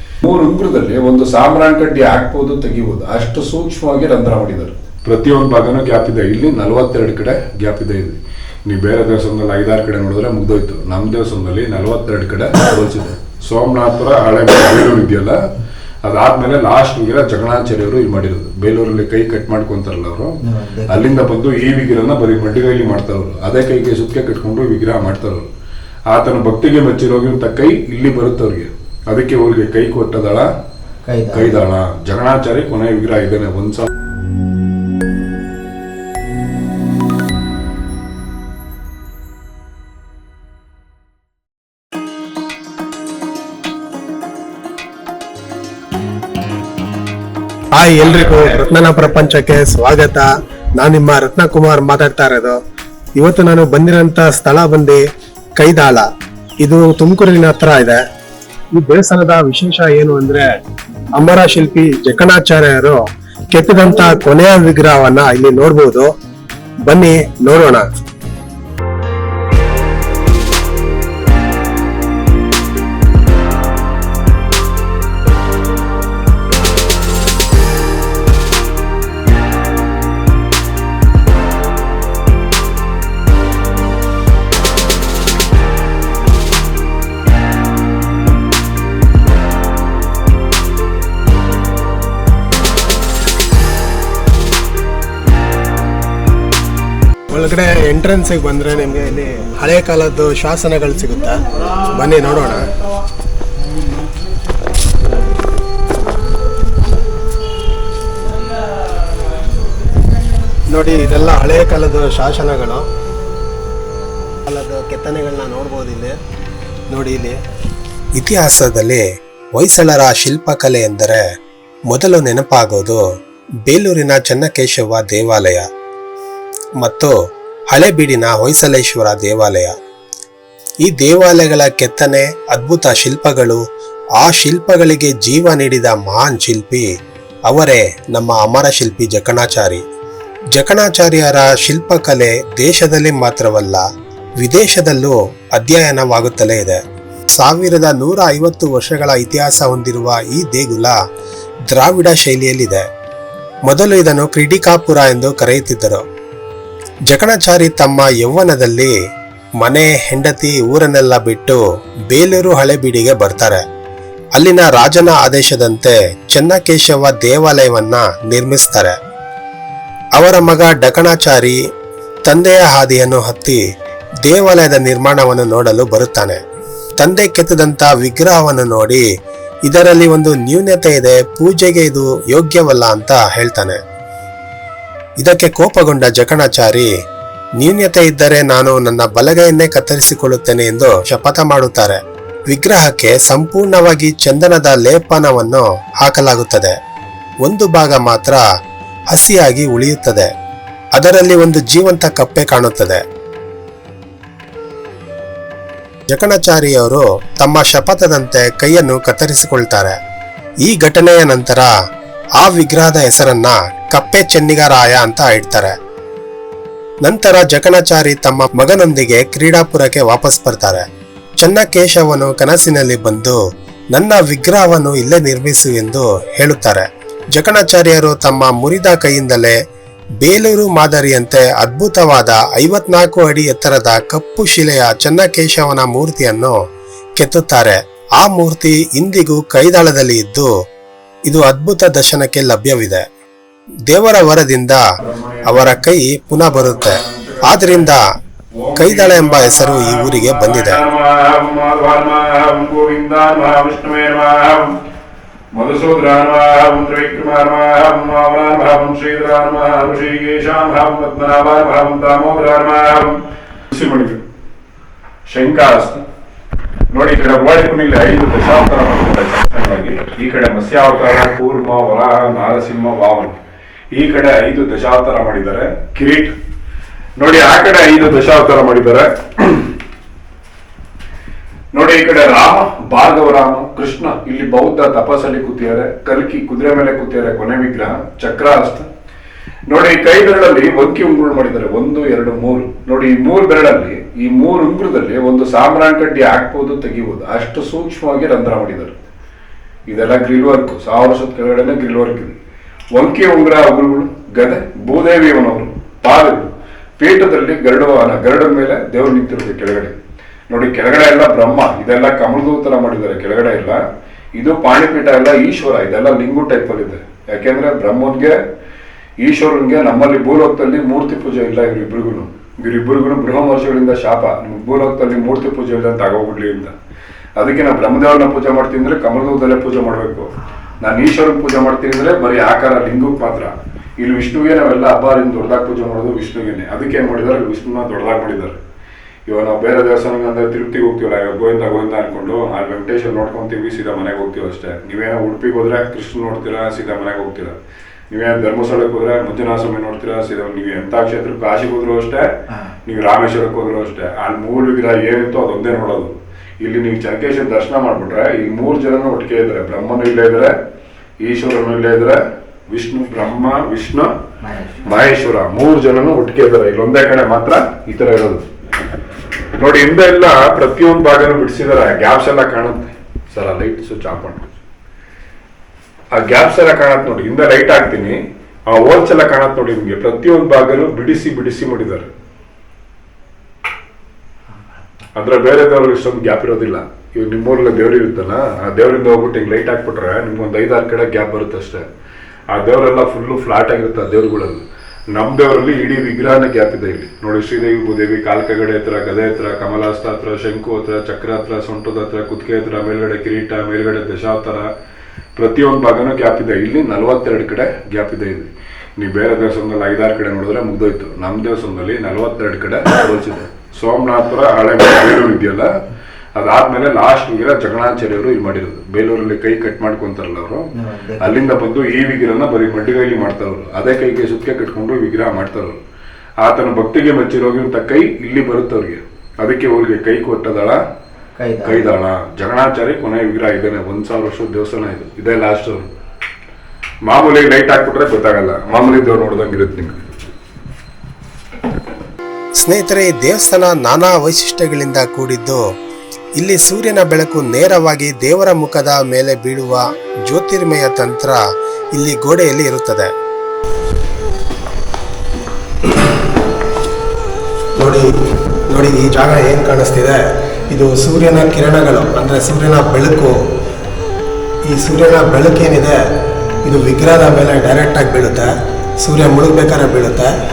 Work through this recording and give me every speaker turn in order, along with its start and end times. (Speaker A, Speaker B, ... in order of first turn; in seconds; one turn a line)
Speaker A: 0.2-15.4
Speaker A: 16.0-20.4
Speaker B: 20.4-21.1
Speaker A: 20.9-25.5
Speaker A: 26.1-30.5
Speaker B: 31.1-31.5
Speaker A: 31.3-33.9
Speaker C: 47.8-52.6
Speaker C: 53.2-55.0
Speaker C: 55.6-56.1
Speaker C: 56.6-58.0
Speaker C: 58.7-60.5
Speaker C: 61.2-66.1
Speaker C: 66.9-67.8
Speaker C: 97.3-102.6
Speaker C: 110.7-112.9
Speaker C: 114.5-116.2
Speaker C: 116.9-117.4
Speaker C: 118.2-119.0
Speaker C: 119.6-121.2
Speaker C: 121.9-123.0
Speaker C: 123.7-125.7
Speaker C: 126.8-127.1
Speaker C: 127.7-129.7
Speaker C: 130.8-133.6
Speaker C: 134.2-136.9
Speaker C: 137.5-139.8
Speaker C: 140.5-143.8
Speaker C: 144.4-146.8
Speaker C: 147.3-151.0
Speaker C: 151.7-152.8
Speaker C: 153.7-156.0
Speaker C: 157.1-158.9
Speaker C: 159.6-163.6
Speaker C: 164.4-168.9
Speaker C: 170.2-171.6
Speaker C: 172.3-173.6
Speaker C: 174.2-176.4
Speaker C: 177.0-179.0
Speaker C: 179.7-183.8
Speaker C: 185.2-186.9
Speaker C: 187.6-192.0
Speaker C: 192.5-196.8
Speaker C: 197.5-198.4
Speaker C: 199.1-200.3
Speaker C: 201.0-203.0
Speaker C: 206.1-209.9
Speaker C: 210.6-211.7
Speaker C: 212.4-215.7
Speaker C: 217.1-220.8
Speaker C: 221.4-223.4
Speaker C: 223.9-229.6
Speaker C: 230.2-236.6
Speaker C: 237.2-240.5
Speaker C: 241.3-243.0
Speaker C: 243.9-244.8
Speaker A: 245.0-245.8
Speaker C: 245.5-246.9
Speaker A: 246.3-248.0
Speaker C: 247.5-248.1
Speaker A: 248.5-254.8
Speaker C: 248.8-250.8
Speaker A: 255.5-264.2
Speaker A: 265.3-266.0
Speaker A: 266.9-273.4
Speaker A: 273.9-276.3
Speaker A: 277.2-279.7
Speaker A: 281.7-288.9
Speaker A: 289.7-299.0
Speaker A: 299.9-302.4
Speaker A: 302.9-310.0
Speaker A: 310.5-313.8
Speaker A: 314.4-318.4
Speaker A: 319.2-326.7
Speaker A: 327.4-338.6
Speaker A: 339.3-347.6
Speaker A: 348.1-360.5
Speaker A: 361.2-364.1
Speaker A: 364.7-368.4
Speaker A: 369.5-374.5
Speaker A: 376.1-382.1
Speaker A: 385.1-391.9
Speaker A: 392.5-404.7
Speaker A: 405.4-415.7
Speaker A: 416.4-420.7
Speaker B: 420.7-421.5
Speaker A: 421.2-425.8
Speaker A: 426.4-430.8
Speaker B: 431.4-431.9
Speaker A: 431.6-435.9
Speaker A: 437.1-440.0
Speaker C: 442.6-445.6
Speaker C: 446.4-451.4
Speaker C: 451.9-453.1
Speaker C: 457.8-458.1
Speaker C: 458.7-463.4
Speaker C: 464.7-466.0
Speaker C: 466.6-468.5
Speaker C: 469.0-470.3